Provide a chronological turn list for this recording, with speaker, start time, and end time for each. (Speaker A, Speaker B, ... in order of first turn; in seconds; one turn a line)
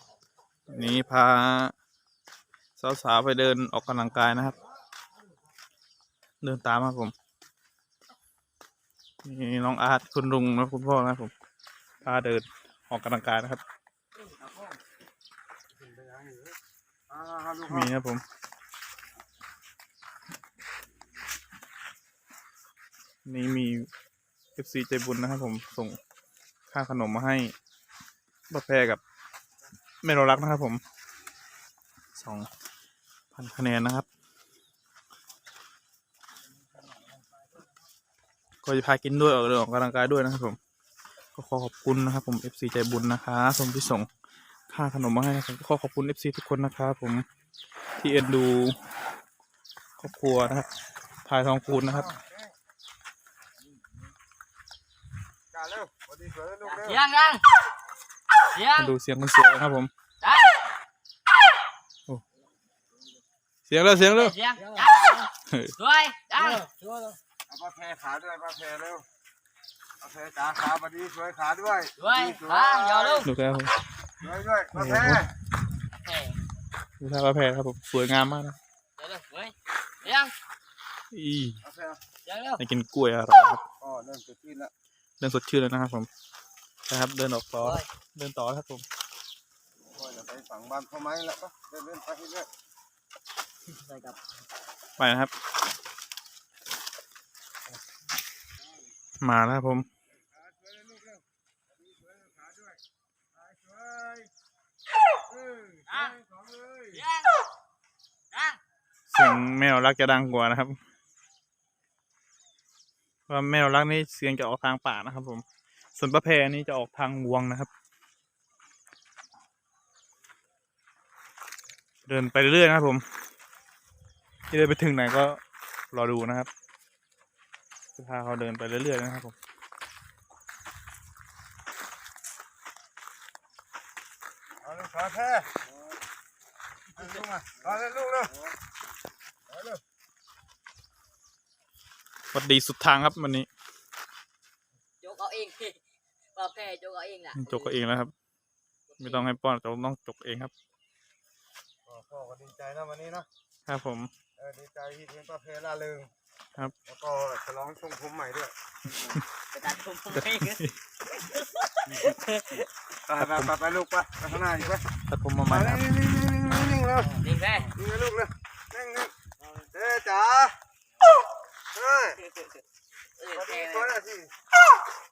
Speaker A: 0.7-1.7
Speaker A: 2.8-4.5
Speaker A: 6.4-7.1
Speaker A: 9.2-11.3
Speaker A: 12.0-13.6
Speaker B: 14.3-14.8
Speaker C: 15.7-16.6
Speaker C: 17.1-17.9
Speaker A: 17.7-18.2
Speaker A: 23.2-23.9
Speaker A: 24.6-26.0
Speaker A: 26.7-27.5
Speaker A: 28.5-29.0
Speaker A: 30.0-30.8
Speaker A: 32.1-32.5
Speaker A: 33.3-34.1
Speaker A: 38.6-40.6
Speaker A: 41.4-44.1
Speaker A: 44.7-47.2
Speaker A: 48.0-48.8
Speaker A: 50.0-50.7
Speaker A: 51.2-52.1
Speaker C: 51.7-52.5
Speaker B: 53.6-54.1
Speaker C: 55.5-57.0
Speaker B: 56.6-57.4
Speaker B: 58.5-59.0
Speaker A: 58.8-59.9
Speaker B: 60.2-60.6
Speaker A: 63.7-64.4
Speaker B: 63.9-66.7
Speaker A: 65.5-65.7
Speaker C: 67.5-69.0
Speaker C: 70.0-73.3
Speaker B: 72.0-73.3
Speaker A: 73.2-73.8
Speaker C: 74.2-75.3
Speaker A: 74.7-75.2
Speaker B: 76.0-76.4
Speaker A: 77.0-78.6
Speaker B: 79.0-80.3
Speaker A: 81.1-81.6
Speaker C: 81.6-82.0
Speaker B: 82.2-82.6
Speaker A: 82.6-83.6
Speaker C: 83.8-84.7
Speaker A: 85.2-86.1
Speaker A: 86.9-88.8
Speaker B: 87.6-87.9
Speaker C: 89.9-92.5
Speaker B: 93.7-94.2
Speaker A: 95.0-95.3
Speaker A: 99.2-99.9
Speaker C: 100.3-102.8
Speaker C: 103.3-104.3
Speaker C: 105.2-107.0
Speaker B: 105.9-106.2
Speaker B: 106.9-107.3
Speaker B: 108.3-108.6
Speaker A: 109.1-110.8
Speaker A: 113.3-115.4
Speaker A: 116.0-117.7
Speaker A: 122.1-123.0
Speaker A: 124.5-125.4
Speaker A: 125.9-126.5
Speaker A: 128.0-129.3
Speaker C: 134.6-135.7
Speaker C: 137.0-138.3
Speaker C: 139.5-139.8
Speaker A: 142.3-143.5
Speaker B: 145.0-145.8
Speaker B: 146.3-147.8
Speaker A: 147.3-148.1
Speaker B: 148.9-149.3
Speaker A: 149.0-150.5
Speaker C: 151.8-153.3
Speaker A: 153.7-154.1
Speaker C: 154.4-156.1
Speaker C: 156.8-158.5
Speaker A: 158.9-159.2
Speaker B: 158.9-160.6
Speaker A: 160.1-160.8
Speaker B: 161.1-162.7
Speaker C: 163.1-164.8
Speaker A: 163.2-163.5
Speaker A: 165.1-165.8
Speaker C: 165.4-169.1
Speaker B: 167.2-167.7
Speaker B: 169.4-169.7
Speaker C: 169.7-170.6
Speaker C: 171.7-172.2
Speaker B: 172.2-172.6
Speaker B: 173.2-174.0
Speaker C: 173.3-174.3